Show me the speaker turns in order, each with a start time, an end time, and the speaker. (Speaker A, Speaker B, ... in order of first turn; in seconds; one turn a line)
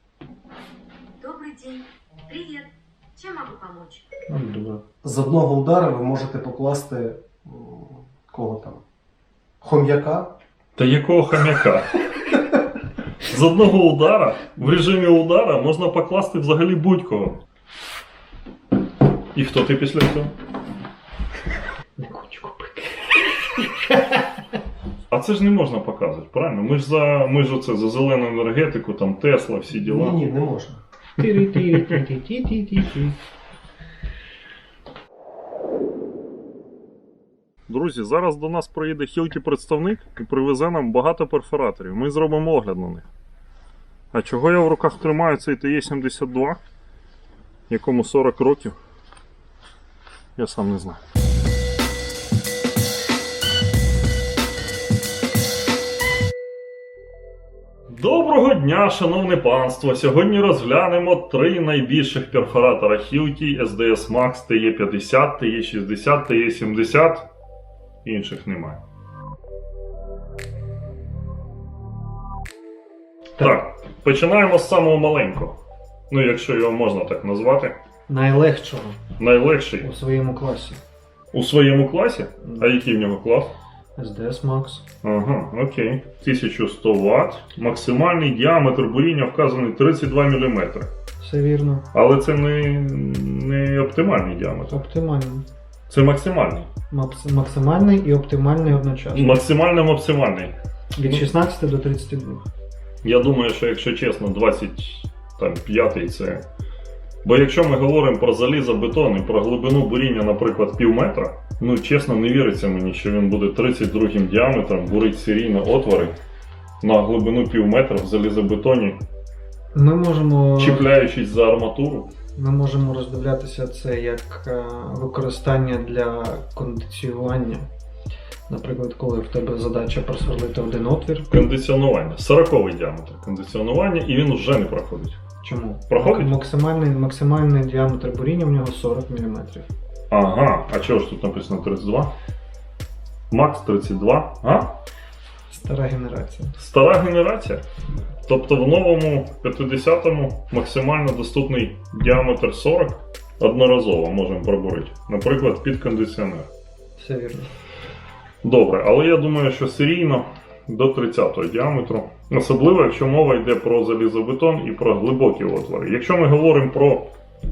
Speaker A: 1.2-4.0
Speaker B: 4.3-4.8
Speaker C: 5.0-8.8
Speaker C: 9.6-10.3
Speaker D: 10.8-11.9
Speaker D: 13.2-17.4
Speaker D: 19.3-20.3
Speaker B: 22.0-24.2
Speaker D: 25.1-30.2
Speaker C: 29.8-30.8
Speaker B: 31.2-33.2
Speaker D: 31.3-32.0
Speaker D: 37.7-43.1
Speaker D: 44.1-46.6
Speaker D: 47.7-48.8
Speaker D: 50.4-51.0
Speaker D: 57.9-67.3
Speaker D: 68.0-68.8
Speaker D: 73.4-75.6
Speaker D: 76.1-77.8
Speaker B: 78.1-79.0
Speaker D: 79.2-79.9
Speaker B: 79.8-80.8
Speaker D: 81.3-83.5
Speaker B: 82.5-82.7
Speaker B: 84.0-84.8
Speaker D: 85.0-90.9
Speaker B: 91.2-91.8
Speaker D: 91.9-94.8
Speaker B: 94.7-95.5
Speaker D: 95.9-96.7
Speaker B: 96.9-99.4
Speaker D: 99.1-101.3
Speaker B: 101.0-102.4
Speaker D: 103.0-106.4
Speaker D: 107.2-116.1
Speaker D: 116.8-119.0
Speaker B: 119.7-120.9
Speaker D: 120.6-122.1
Speaker B: 122.4-127.7
Speaker B: 128.5-131.3
Speaker D: 131.3-135.2
Speaker B: 135.4-139.7
Speaker D: 135.9-136.4
Speaker D: 140.1-142.1
Speaker D: 143.3-144.8
Speaker B: 145.5-146.5
Speaker D: 146.6-147.6
Speaker D: 148.3-156.5
Speaker B: 157.0-157.5
Speaker D: 158.4-167.1